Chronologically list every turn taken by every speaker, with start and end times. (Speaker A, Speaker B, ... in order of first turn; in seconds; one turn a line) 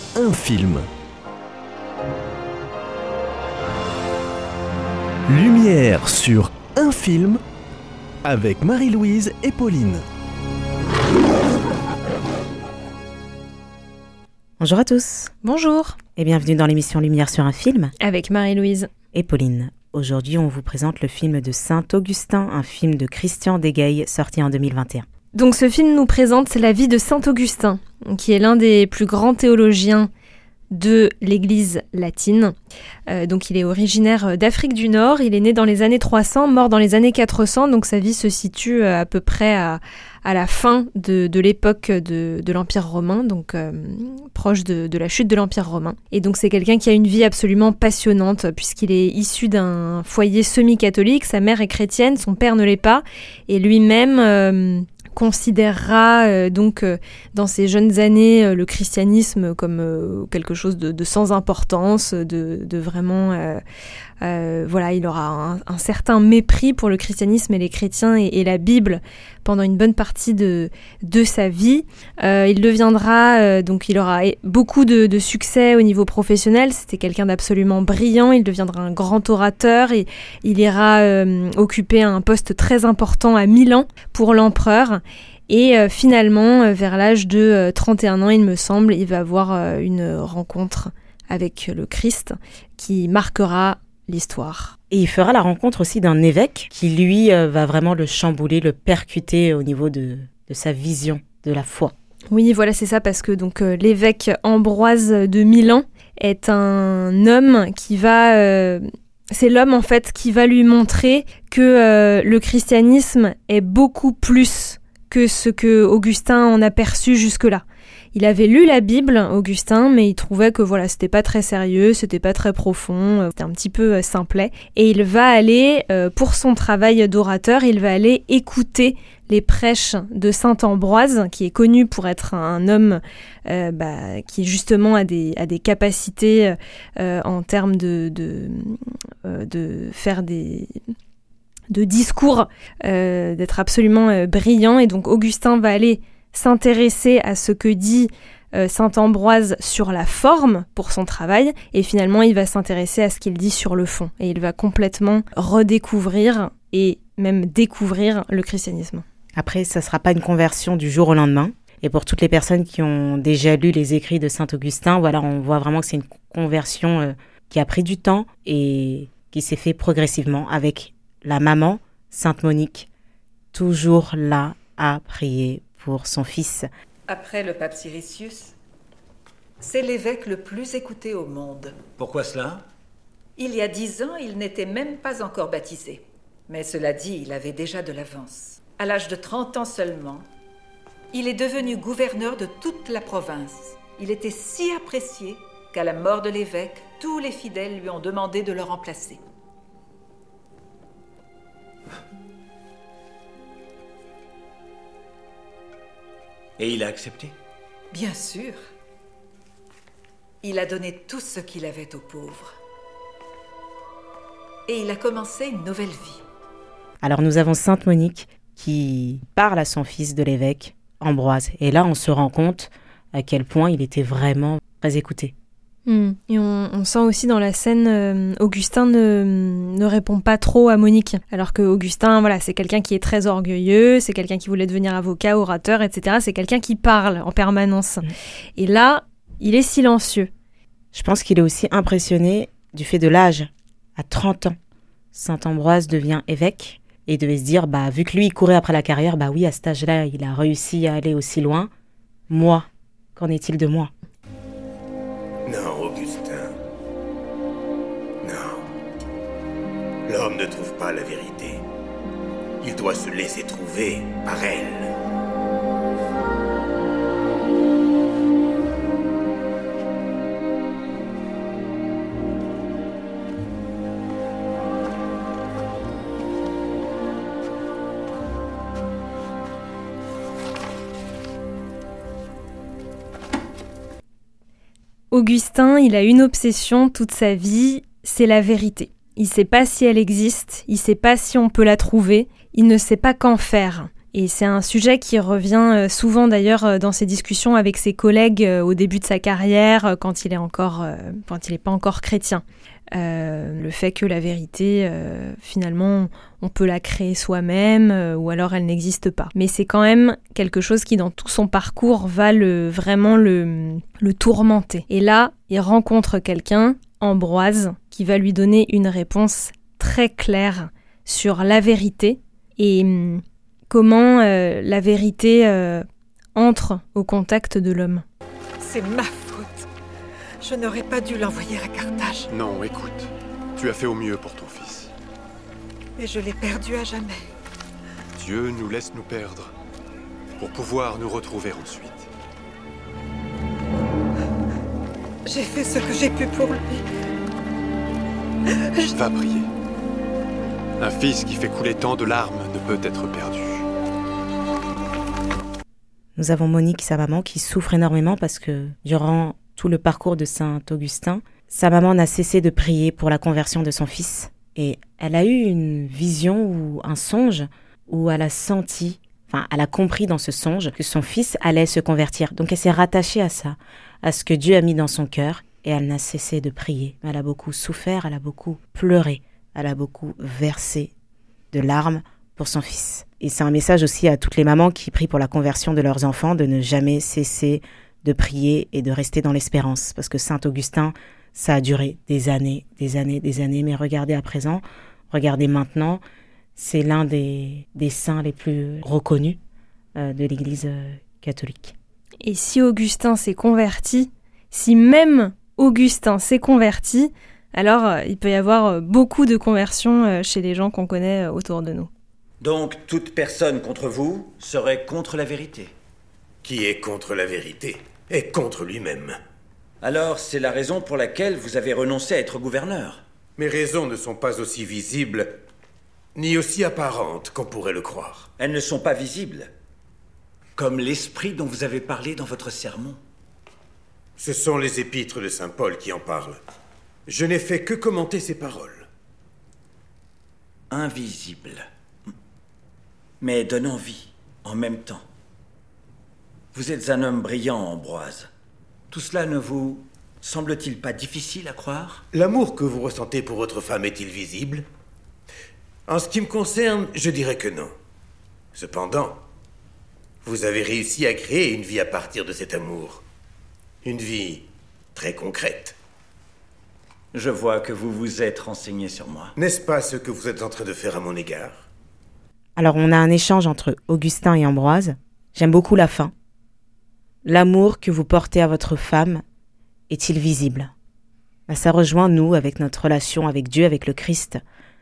Speaker A: 0.1-0.9
Speaker A: 5.3-7.4
Speaker A: 8.2-10.1
Speaker B: 14.6-15.3
Speaker C: 15.4-16.0
Speaker B: 16.2-17.9
Speaker C: 18.0-18.9
Speaker B: 19.1-25.1
Speaker C: 25.3-30.1
Speaker C: 30.7-32.5
Speaker C: 33.1-63.6
Speaker C: 64.2-94.8
Speaker B: 94.9-101.9
Speaker C: 102.3-140.8
Speaker C: 141.7-159.0
Speaker B: 159.4-172.9
Speaker B: 173.5-176.7
Speaker D: 177.1-178.6
Speaker D: 179.6-181.8
Speaker E: 182.0-182.7
Speaker D: 183.4-190.3
Speaker D: 191.1-199.2
Speaker E: 206.6-207.3
Speaker D: 207.9-208.6
Speaker D: 210.4-212.5
Speaker D: 214.7-216.2
Speaker B: 217.0-225.3
Speaker C: 225.9-240.3
Speaker B: 240.9-244.6
Speaker B: 245.1-251.7
Speaker B: 252.3-253.9
Speaker F: 255.5-256.5
Speaker F: 258.2-258.7
Speaker F: 260.1-261.6
Speaker F: 262.6-264.9
Speaker C: 285.1-328.1
Speaker D: 328.6-329.7
Speaker D: 330.4-332.3
Speaker G: 332.3-334.9
Speaker D: 336.0-337.2
Speaker G: 338.2-339.5
Speaker G: 340.4-342.1
Speaker D: 345.3-346.9
Speaker D: 348.5-348.9
Speaker G: 348.9-349.5
Speaker G: 350.8-353.7
Speaker B: 356.2-380.9
Speaker B: 381.5-396.0
Speaker B: 396.6-399.4
Speaker B: 400.0-401.8
Speaker C: 402.2-411.9
Speaker E: 412.4-415.8
Speaker F: 416.4-419.2
Speaker E: 419.8-423.0
Speaker F: 423.4-425.3
Speaker F: 426.2-428.3
Speaker E: 428.4-429.5
Speaker E: 430.6-433.0
Speaker F: 434.2-436.4
Speaker F: 437.1-438.9
Speaker E: 440.7-441.6
Speaker E: 443.2-445.1
Speaker E: 446.5-448.3
Speaker E: 448.9-452.0
Speaker F: 452.1-454.6
Speaker F: 455.9-457.7
Speaker F: 458.6-459.2
Speaker F: 460.2-463.0
Speaker F: 463.8-465.8
Speaker E: 467.1-469.3
Speaker F: 469.4-471.6
Speaker B: 472.6-476.1
Speaker B: 477.2-479.2
Speaker B: 479.9-480.7
Speaker B: 481.5-484.4